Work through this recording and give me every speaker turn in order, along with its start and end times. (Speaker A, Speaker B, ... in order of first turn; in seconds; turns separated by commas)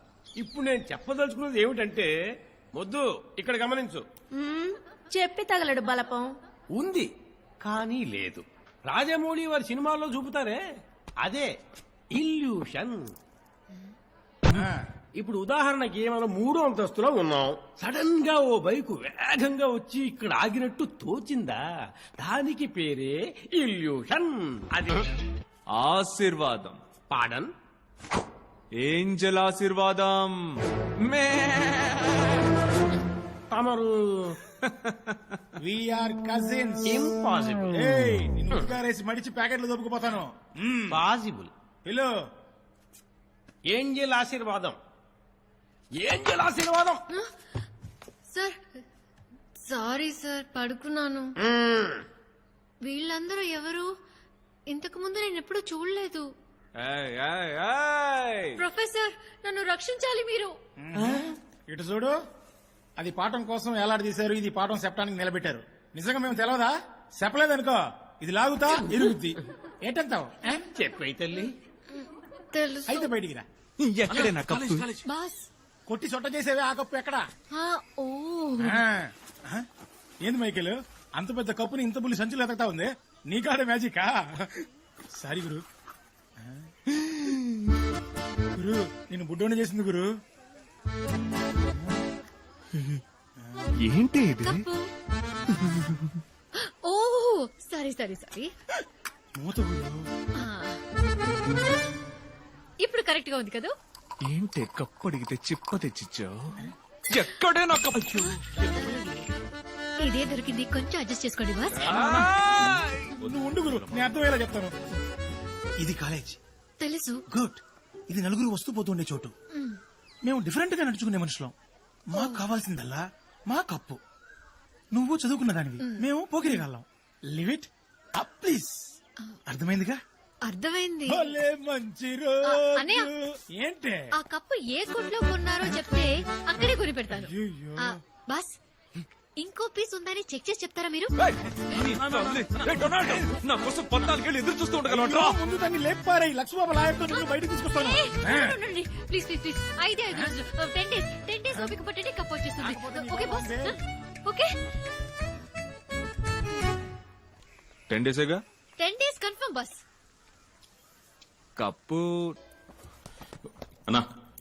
Speaker A: 0.4-2.1, Speaker A: 2.7-4.1, Speaker B: 4.3-6.4, Speaker A: 6.7-7.1, Speaker A: 7.6-10.6, Speaker A: 11.2-11.5, Speaker A: 12.1-13.1, Speaker A: 15.2-21.6, Speaker A: 22.2-25.0, Speaker C: 25.7-26.8, Speaker A: 27.1-27.5, Speaker C: 28.8-30.5, Speaker C: 31.0-31.7, Speaker A: 33.5-34.4, Speaker D: 35.6-36.8, Speaker A: 36.8-38.8, Speaker D: 38.0-40.9, Speaker A: 40.9-41.5, Speaker D: 41.9-42.1, Speaker A: 43.7-44.8, Speaker A: 46.0-47.0, Speaker E: 48.3-48.6, Speaker E: 49.6-51.4, Speaker A: 51.5-52.0, Speaker E: 52.8-53.9, Speaker E: 54.7-56.3, Speaker C: 56.8-58.6, Speaker E: 58.6-60.5, Speaker D: 60.8-62.2, Speaker D: 63.0-70.4, Speaker A: 70.4-71.5, Speaker E: 72.5-73.1, Speaker D: 72.9-73.5, Speaker C: 73.8-74.9, Speaker E: 75.1-75.5, Speaker D: 75.9-77.3, Speaker E: 77.5-78.8, Speaker D: 78.6-79.7, Speaker D: 80.2-84.6, Speaker D: 85.2-85.6, Speaker D: 86.4-86.7, Speaker D: 88.5-90.1, Speaker C: 93.8-94.7, Speaker E: 94.4-94.9, Speaker C: 95.5-96.1, Speaker E: 96.6-98.5, Speaker D: 99.4-100.0, Speaker E: 100.4-100.8, Speaker E: 102.8-103.7, Speaker C: 104.3-108.9, Speaker E: 110.0-112.1, Speaker D: 111.9-112.3, Speaker C: 112.1-112.8, Speaker D: 113.2-114.7, Speaker D: 115.8-116.4, Speaker E: 116.8-117.2, Speaker D: 117.3-119.3, Speaker D: 120.2-121.5, Speaker D: 122.1-124.0, Speaker E: 122.2-122.4, Speaker D: 124.9-128.9, Speaker E: 125.8-126.1, Speaker D: 129.5-130.0, Speaker E: 130.4-131.3, Speaker D: 131.1-134.1, Speaker E: 132.5-133.1, Speaker E: 134.2-138.6, Speaker D: 137.1-137.8, Speaker E: 139.4-141.1, Speaker C: 141.7-145.3, Speaker D: 144.8-148.6, Speaker E: 147.1-154.5, Speaker D: 152.6-153.7, Speaker C: 157.9-158.4, Speaker E: 158.8-159.8, Speaker C: 161.6-162.3